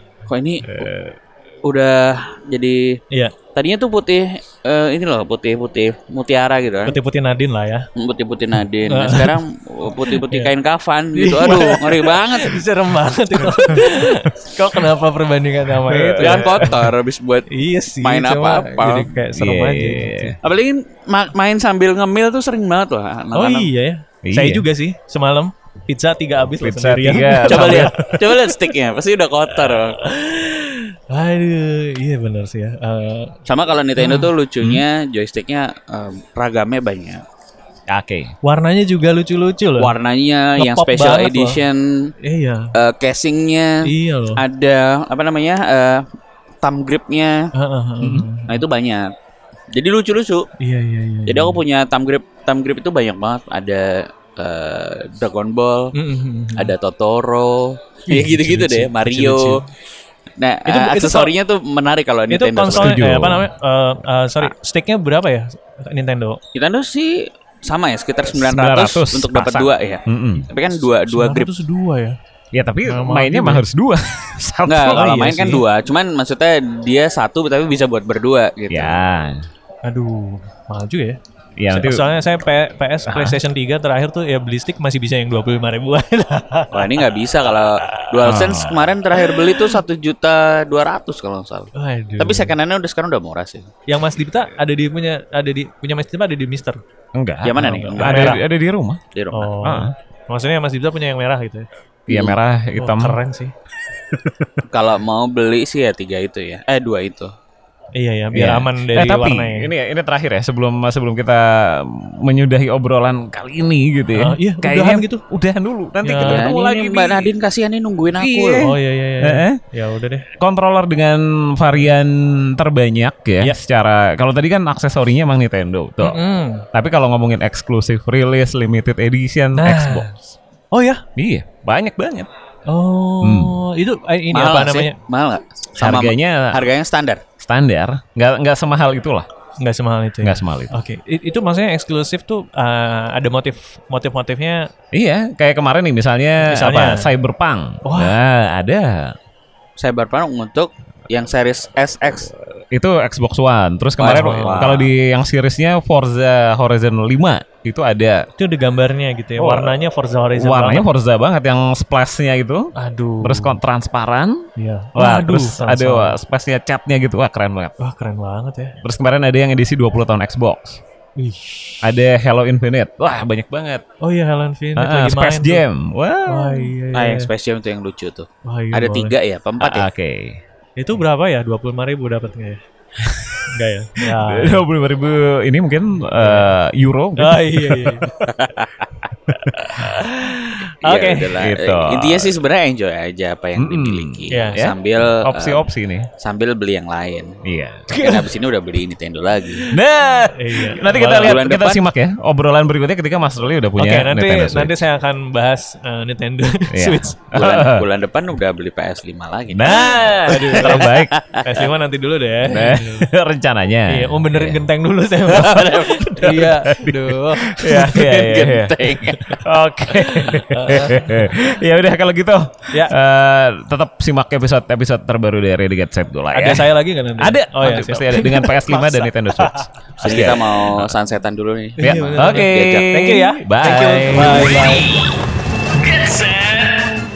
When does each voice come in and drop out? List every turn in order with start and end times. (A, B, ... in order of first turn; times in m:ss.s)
0:00.3-0:00.9 A
0:00.7-0:01.1 B
0:01.6-0:03.0 A
0:03.5-0:07.0 A
0:06.9-0:07.9 C
0:08.0-0:12.7 A
0:08.9-0:09.4 C
0:10.1-0:10.5 C
0:11.2-0:16.9 C
0:15.8-0:16.7 B
0:16.2-0:17.5 A
0:17.5-0:20.4 C
0:18.0-0:19.1 A
0:19.3-0:20.4 B
0:20.4-0:23.7 A
0:23.4-0:28.5 C
0:24.2-0:24.7 B
0:26.6-0:28.1 B
0:27.4-0:30.0 A
0:29.6-0:33.4 C
0:33.5-0:37.2 A
0:34.0-0:34.3 C
0:37.9-0:38.3 B
0:38.4-0:39.9 C
0:39.8-0:42.1 A
0:40.6-0:41.6 C
0:42.2-0:42.7 C
0:42.7-0:46.1 A
0:43.8-0:44.4 C
0:46.6-0:47.5 A
0:47.5-0:48.6 C
0:48.4-0:49.1 A
0:49.7-0:50.5 A
0:50.6-0:51.6 C
0:51.3-0:55.9 A
0:55.9-0:56.7 C
0:56.6-0:59.6 A
0:58.1-0:59.7 C
1:00.4-1:03.0 A
1:00.7-1:01.3 C
1:02.3-1:06.4 C
1:02.7-1:03.5 B
1:06.5-1:11.5 A
1:08.3-1:10.5 B
1:11.1-1:12.2 C
1:12.5-1:15.1 B
1:12.9-1:13.6 C
1:14.7-1:19.0 A
1:14.9-1:15.6 C
1:18.7-1:19.5 B
1:19.8-1:21.2 C
1:21.6-1:22.1 B
1:21.7-1:27.0 C
1:23.1-1:23.4 B
1:26.7-1:33.7 A
1:27.8-1:28.1 C
1:28.2-1:28.9 B
1:29.2-1:29.7 C
1:31.8-1:32.5 C
1:33.9-1:36.8 C
1:37.2-1:39.0 B
1:37.4-1:38.4 A
1:37.6-1:38.4 C
1:39.1-1:39.6 A
1:39.3-1:41.7 C
1:39.6-1:39.9 B
1:42.1-1:43.2 B
1:42.1-1:42.4 A
1:42.8-1:43.5 C
1:44.1-1:44.6 B
1:44.7-1:47.3 A
1:48.0-1:49.7 C
1:48.3-1:57.3 B
1:54.1-1:55.2 C
1:56.0-1:56.5 C
1:56.3-1:58.7 A
1:58.2-1:59.6 B
1:58.6-2:00.3 C
2:00.3-2:10.4 B
2:06.0-2:06.7 C
2:09.6-2:10.1 C
2:10.7-2:11.0 C
2:11.2-2:12.3 B
2:12.7-2:15.0 C
2:13.2-2:13.6 B
2:14.3-2:17.2 A
2:15.8-2:16.7 B
2:17.4-2:19.3 B
2:19.6-2:24.7 C
2:20.2-2:20.8 B
2:24.9-2:29.2 B
2:26.4-2:27.1 C
2:27.8-2:28.2 C
2:29.8-2:32.3 A
2:32.7-2:38.3 B
2:34.0-2:34.9 A
2:34.0-2:34.8 C
2:38.4-2:40.9 C
2:39.4-2:39.8 B
2:40.4-2:47.8 B
2:42.8-2:43.6 C
2:44.6-2:46.2 C
2:47.8-2:48.8 C
2:48.8-2:50.8 B
2:51.2-2:51.9 C
2:51.8-2:53.8 B
2:54.0-2:55.6 C
2:54.8-2:56.7 B
2:56.3-2:57.3 C
2:56.9-2:59.9 A
2:58.4-2:59.1 C
2:59.6-3:00.4 B
3:00.8-3:02.6 C
3:03.0-3:08.1 B
3:03.4-3:04.7 C
3:06.2-3:06.5 C
3:07.2-3:08.1 C
3:08.2-3:08.9 A
3:09.3-3:09.9 B
3:09.5-3:11.4 C
3:10.8-3:15.6 A
3:11.4-3:12.3 B
3:13.6-3:16.1 B
3:14.3-3:14.6 C
3:16.2-3:17.4 A
3:17.4-3:17.9 B
3:17.9-3:18.3 C
3:17.9-3:19.6 A
3:19.6-3:21.4 C
3:19.7-3:24.8 B
3:21.0-3:21.8 A
3:23.8-3:27.3 C
3:26.7-3:27.9 B
3:27.3-3:31.7 A
3:29.5-3:31.1 B
3:30.2-3:33.1 C
3:32.5-3:34.6 B
3:33.9-3:37.9 C
3:35.3-3:36.6 A
3:36.6-3:50.9 B
3:37.6-3:39.4 A
3:40.0-3:41.3 C
3:46.3-3:50.3 C
3:50.0-3:53.1 A
3:51.8-3:55.0 C
3:51.8-3:54.8 B
3:54.4-3:55.1 A
3:55.8-3:57.0 A